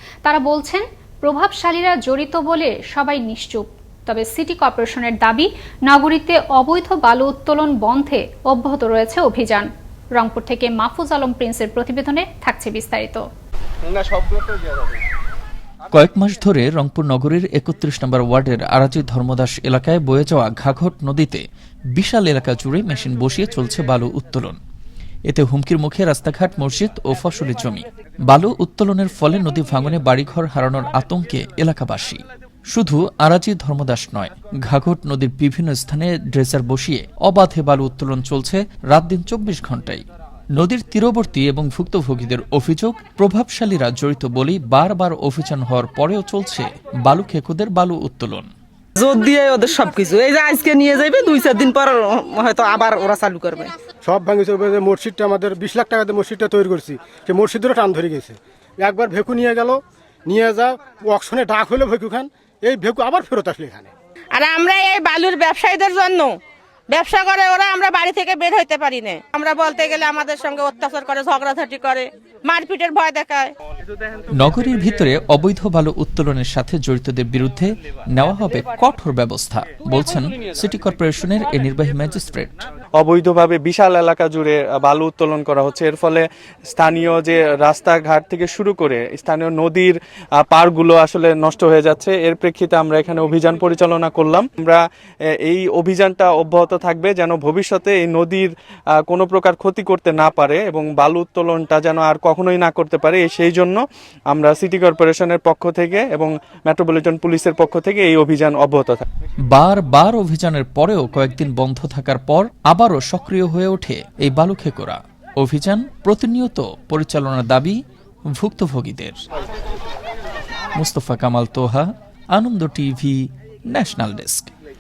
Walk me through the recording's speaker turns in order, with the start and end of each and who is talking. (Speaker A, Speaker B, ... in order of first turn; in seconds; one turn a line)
Speaker A: 0.2-13.3
Speaker B: 15.9-21.4
Speaker B: 21.9-24.6
Speaker B: 25.3-48.5
Speaker C: 49.0-53.7
Speaker D: 54.0-63.9
Speaker E: 64.3-66.3
Speaker E: 66.9-73.5
Speaker B: 74.3-82.7
Speaker F: 83.0-94.8
Speaker F: 95.5-98.5
Speaker F: 99.0-103.8
Speaker F: 104.3-109.0
Speaker B: 109.5-117.8
Speaker B: 118.3-119.2
Speaker B: 120.8-124.5